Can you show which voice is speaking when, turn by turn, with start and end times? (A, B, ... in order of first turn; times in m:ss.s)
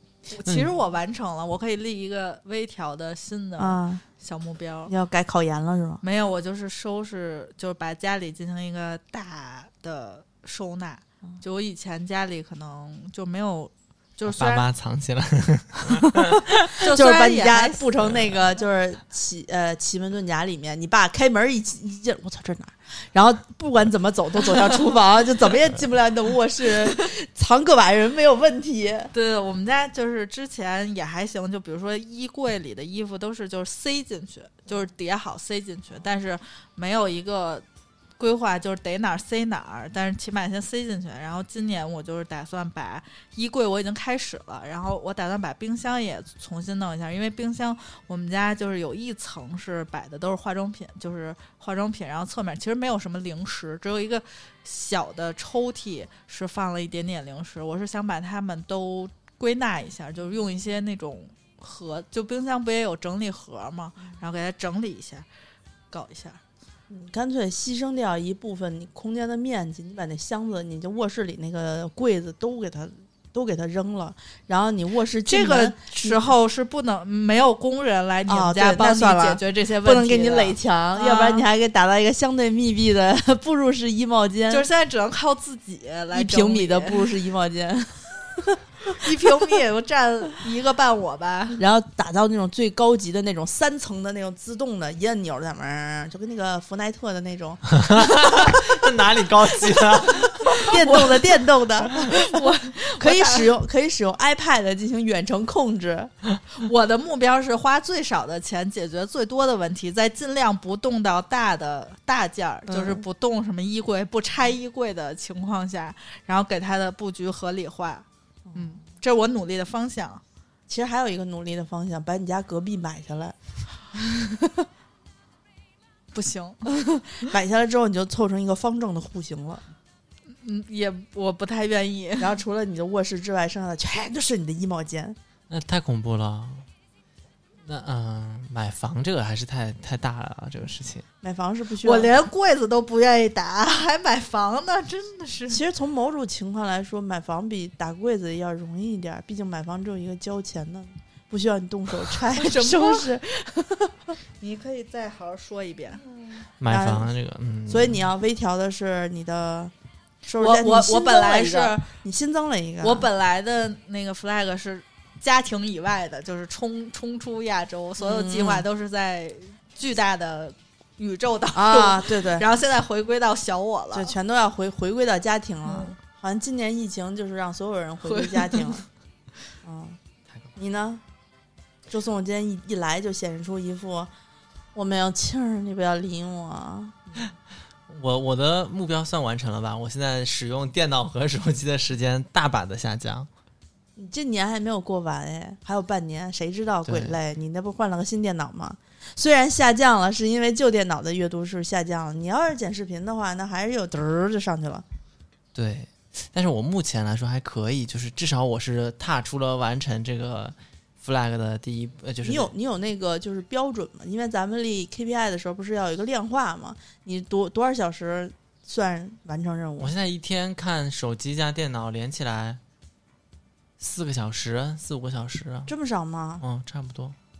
0:00.3-0:04.9 A
0:00.4-0:00.7 B
0:03.6-0:04.0 C
0:04.9-0:06.0 C
0:06.0-0:14.7 A
0:14.3-0:16.8 B
0:16.8-0:29.1 C
0:16.8-0:17.9 A
0:29.1-0:37.6 A
0:38.2-1:05.2 A
1:05.9-1:06.4 A
1:06.9-1:16.3 C
1:15.2-1:21.4 A
1:18.3-1:24.6 C
1:24.5-1:27.1 A
1:26.1-1:28.9 C
1:28.9-1:31.6 A
1:31.6-1:38.3 C
1:37.7-1:40.7 B
1:40.5-1:46.1 C
1:40.6-1:41.2 A
1:42.0-1:43.5 A
1:46.5-2:00.2 A
1:52.7-1:53.0 C
1:58.5-1:58.7 C
2:00.7-2:03.4 C
2:03.9-2:04.7 C
2:06.1-2:06.7 A
2:06.9-2:09.6 C
2:10.4-2:12.3 A
2:12.2-2:15.2 C
2:15.5-2:16.6 B
2:17.6-2:21.0 B
2:21.2-2:22.1 C
2:21.8-2:25.6 A
2:25.5-2:34.1 C
2:32.3-2:33.1 A
2:34.4-2:36.0 A
2:36.6-2:38.1 B
2:36.7-2:37.1 C
2:37.7-2:39.7 C
2:40.2-2:43.1 C
2:40.4-2:41.8 A
2:42.8-2:54.1 A
2:48.0-2:48.6 C
2:51.5-2:52.4 C
2:53.9-2:58.8 C
2:55.6-2:56.0 A
2:58.0-2:58.8 A
2:59.6-3:00.0 C
3:00.6-3:01.0 C
3:01.9-3:04.1 C
3:04.7-3:07.3 C
3:07.9-3:13.3 B
3:14.0-3:24.8 C
3:16.8-3:17.2 B
3:25.5-3:32.5 B
3:32.2-3:39.9 C
3:39.8-3:42.6 B
3:43.8-3:45.7 B
3:45.7-3:46.4 C
3:46.4-3:47.2 B